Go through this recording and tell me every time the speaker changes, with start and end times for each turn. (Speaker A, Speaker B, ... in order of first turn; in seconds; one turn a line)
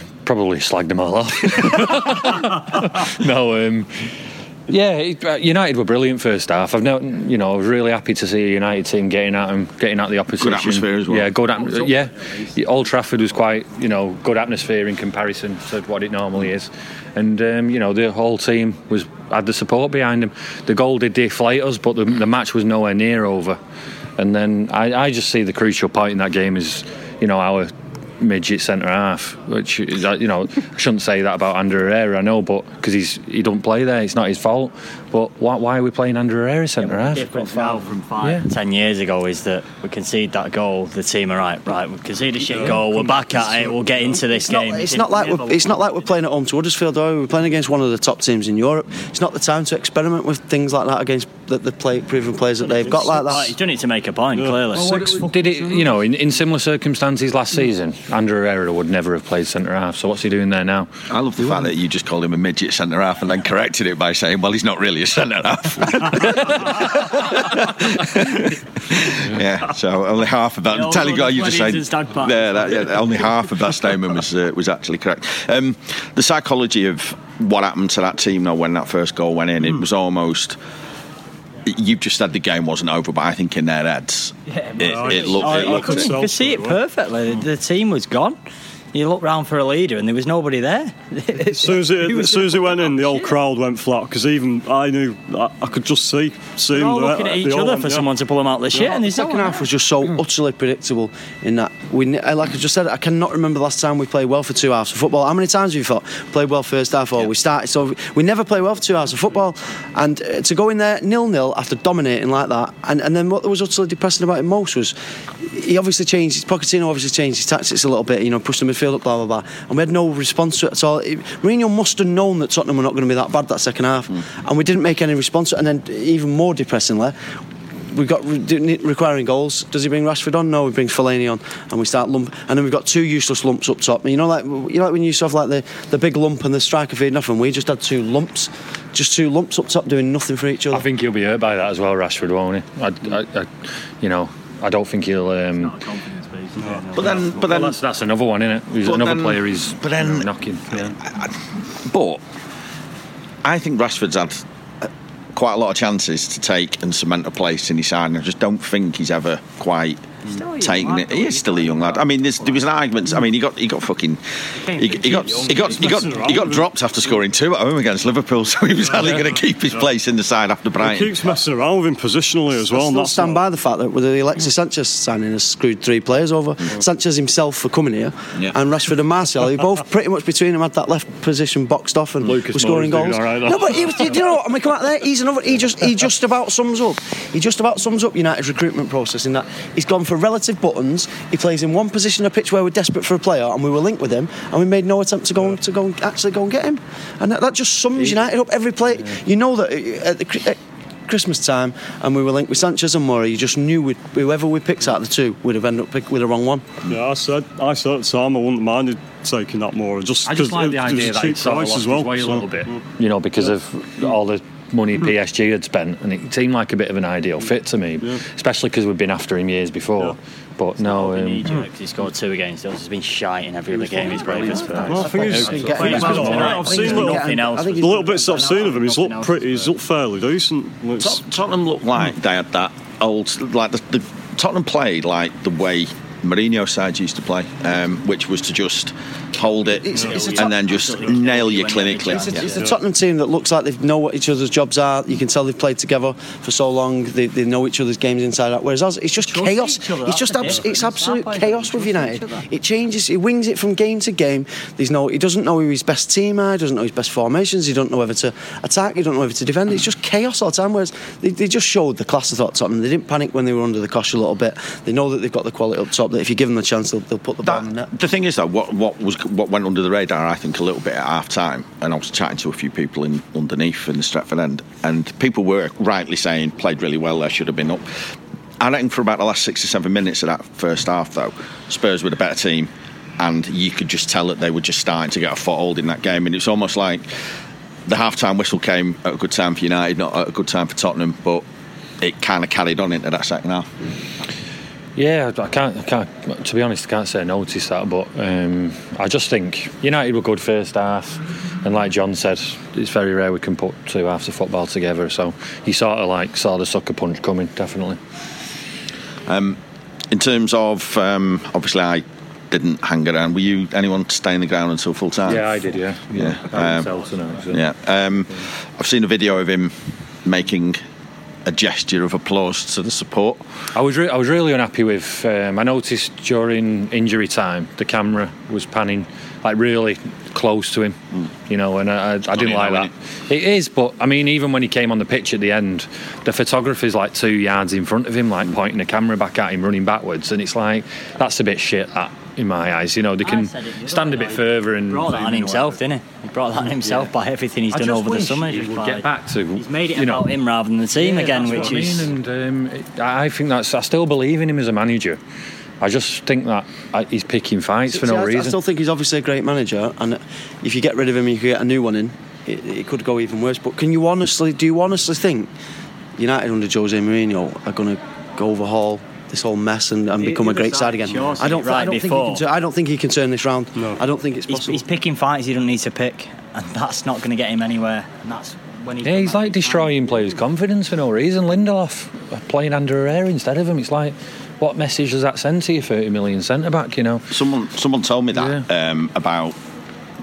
Speaker A: 0.2-4.1
Speaker A: 4.7-23.6
Speaker B: 10.4-11.3
Speaker A: 24.2-37.3
Speaker C: 37.0-45.8
Speaker D: 37.1-37.9
Speaker A: 38.2-38.5
Speaker E: 42.5-44.2
Speaker D: 44.4-53.5
Speaker C: 52.6-55.1
Speaker A: 54.7-60.9
Speaker B: 61.1-80.6
Speaker C: 70.7-73.3
Speaker B: 81.6-86.1
Speaker C: 84.5-88.3
Speaker E: 84.8-86.8
Speaker C: 88.9-93.3
Speaker E: 91.5-98.1
Speaker C: 96.7-99.6
Speaker E: 98.7-99.0
Speaker D: 99.0-127.3
Speaker D: 127.9-140.8
Speaker A: 140.7-145.8
Speaker C: 145.6-147.6
Speaker E: 146.6-146.9
Speaker B: 146.9-147.8
Speaker A: 147.3-151.0
Speaker B: 148.8-152.2
Speaker B: 153.4-171.2
Speaker C: 160.2-162.7
Speaker C: 164.6-166.2
Speaker E: 165.7-166.6
Speaker E: 170.8-173.4
Speaker D: 172.7-206.8
Speaker A: 182.2-184.0
Speaker E: 206.8-212.8
Speaker A: 210.2-221.6
Speaker C: 220.8-229.7
Speaker D: 223.7-228.5
Speaker A: 224.5-227.1
Speaker E: 224.8-231.2
Speaker B: 231.0-242.5
Speaker D: 239.8-240.5
Speaker E: 239.9-240.2
Speaker C: 239.9-242.7
Speaker D: 242.2-267.9
Speaker C: 249.2-252.4
Speaker B: 267.4-278.0
Speaker B: 278.6-287.2
Speaker B: 287.9-291.4
Speaker B: 292.0-293.7
Speaker A: 295.0-308.0
Speaker B: 309.2-309.6
Speaker B: 310.1-315.6
Speaker A: 315.3-317.6
Speaker B: 316.1-316.9
Speaker B: 317.5-319.7
Speaker B: 320.2-320.8
Speaker B: 321.4-323.4
Speaker A: 323.7-345.8
Speaker B: 332.3-332.9
Speaker C: 343.2-352.1
Speaker A: 346.8-347.1
Speaker A: 347.7-350.3
Speaker A: 351.0-355.2
Speaker E: 351.4-351.9
Speaker A: 355.8-358.6
Speaker D: 357.9-365.5
Speaker D: 366.2-374.8
Speaker C: 370.2-372.4
Speaker C: 374.5-380.1
Speaker A: 379.0-387.3
Speaker B: 387.3-389.6
Speaker A: 388.4-388.6